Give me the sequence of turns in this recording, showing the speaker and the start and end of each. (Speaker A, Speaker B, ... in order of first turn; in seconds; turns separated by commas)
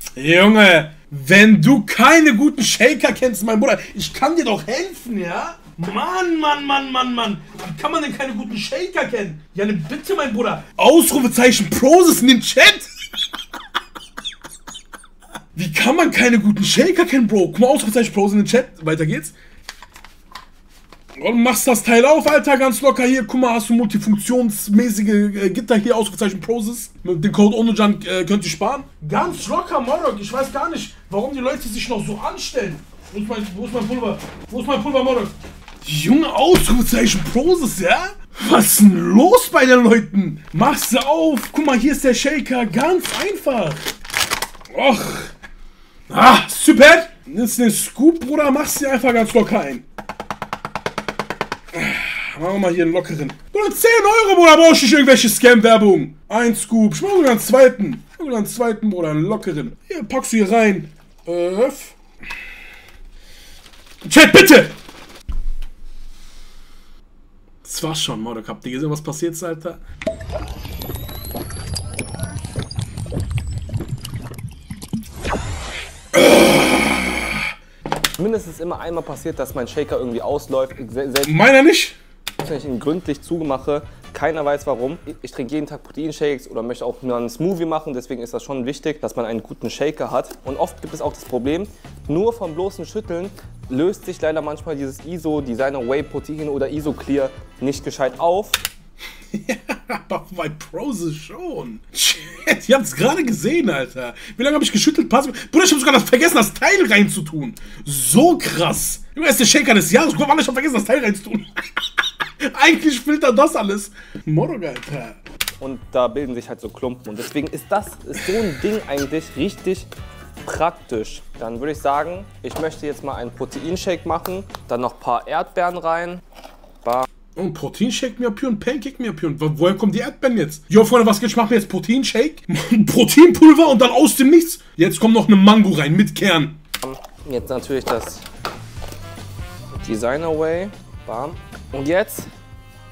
Speaker A: 0.1-12.9, Speaker A: 15.6-19.3, Speaker A: 21.2-43.9, Speaker A: 44.7-45.3, Speaker A: 46.1-49.8, Speaker A: 51.7-61.9, Speaker A: 64.0-64.7, Speaker A: 67.6-69.8, Speaker A: 76.1-77.4, Speaker B: 78.2-81.3, Speaker A: 81.2-82.0, Speaker B: 82.4-98.6, Speaker A: 99.3-111.9, Speaker A: 112.4-115.2, Speaker B: 115.6-119.9, Speaker B: 120.4-126.2, Speaker A: 127.4-136.6, Speaker B: 136.8-138.2, Speaker B: 139.8-142.3